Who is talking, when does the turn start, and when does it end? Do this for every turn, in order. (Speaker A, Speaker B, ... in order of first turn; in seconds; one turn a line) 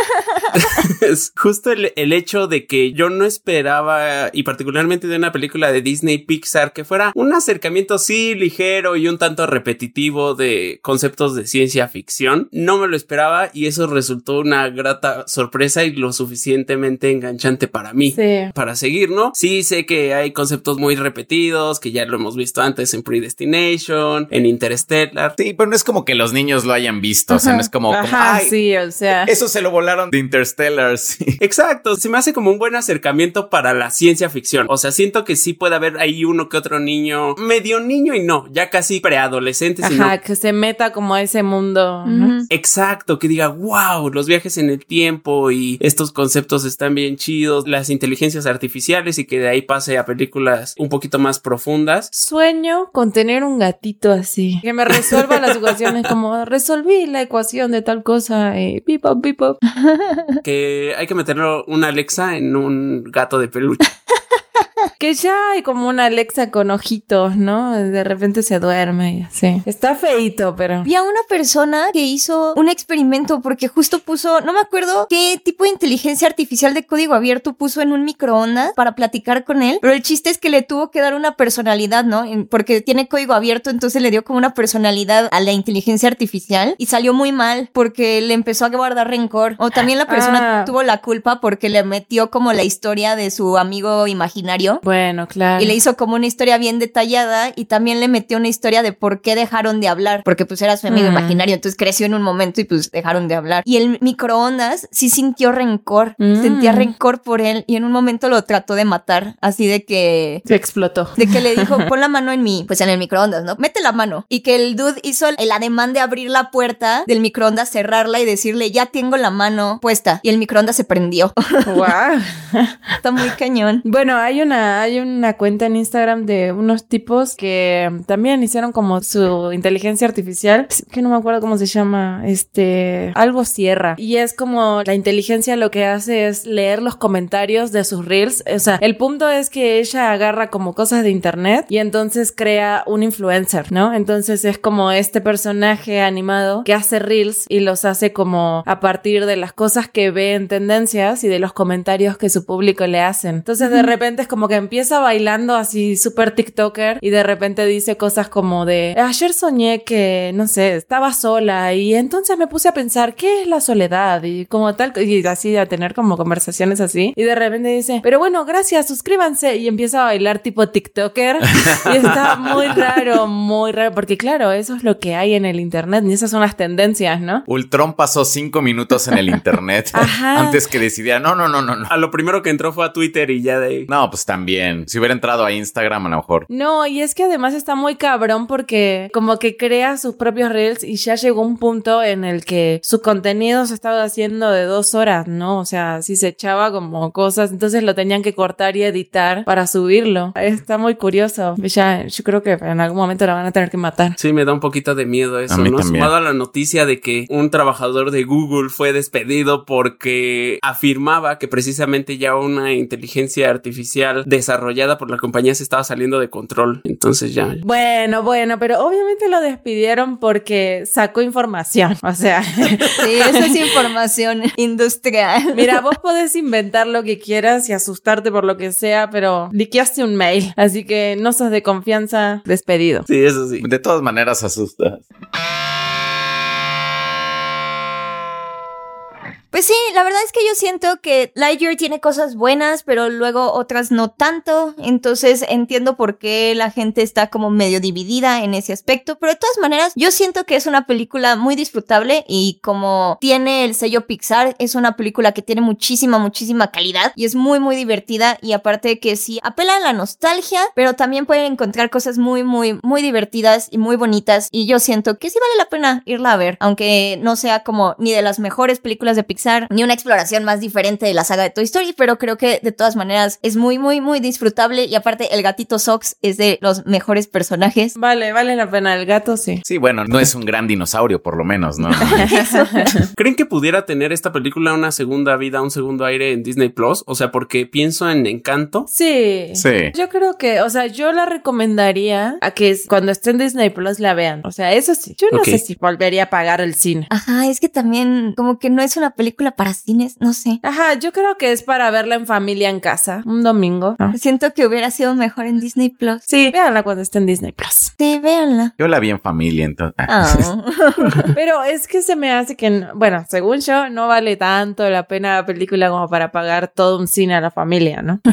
Speaker A: 0.6-25.4
Speaker B: 18.1-18.5
Speaker C: 25.4-28.6
Speaker B: 27.9-29.3
Speaker C: 29.2-31.4
Speaker A: 31.4-40.1
Speaker B: 39.8-42.4
Speaker D: 42.1-42.5
Speaker A: 42.5-52.1
Speaker B: 52.1-59.6
Speaker A: 55.0-56.0
Speaker D: 59.7-60.4
Speaker A: 60.4-63.9
Speaker B: 65.0-70.9
Speaker D: 70.8-94.8
Speaker B: 90.1-90.7
Speaker B: 94.8-95.8
Speaker D: 95.6-110.5
Speaker B: 100.9-101.4
Speaker B: 106.2-106.9
Speaker B: 110.5-111.8
Speaker D: 111.2-121.9
Speaker B: 121.7-122.9
Speaker D: 123.0-123.8
Speaker B: 123.8-177.4
Speaker D: 153.6-153.9
Speaker C: 171.7-172.4
Speaker C: 177.5-181.9
Speaker B: 179.9-180.6
Speaker A: 181.9-183.9
Speaker C: 183.9-186.5
Speaker B: 186.5-204.2
Speaker A: 204.2-217.6
Speaker C: 205.5-206.1
Speaker B: 217.6-223.4
Speaker D: 223.0-225.8
Speaker B: 225.5-233.1
Speaker A: 233.1-233.7
Speaker C: 233.6-235.1
Speaker D: 239.5-277.9
Speaker B: 278.0-279.6
Speaker C: 279.7-282.2
Speaker B: 282.0-283.1
Speaker D: 282.3-282.9
Speaker A: 283.2-288.9
Speaker B: 288.9-297.1
Speaker C: 289.6-289.9
Speaker A: 295.3-295.6
Speaker D: 297.1-300.6
Speaker B: 300.6-304.1
Speaker D: 304.1-306.2
Speaker B: 306.3-307.9
Speaker D: 308.0-308.7
Speaker C: 308.8-310.4
Speaker D: 310.1-311.3
Speaker B: 311.3-318.2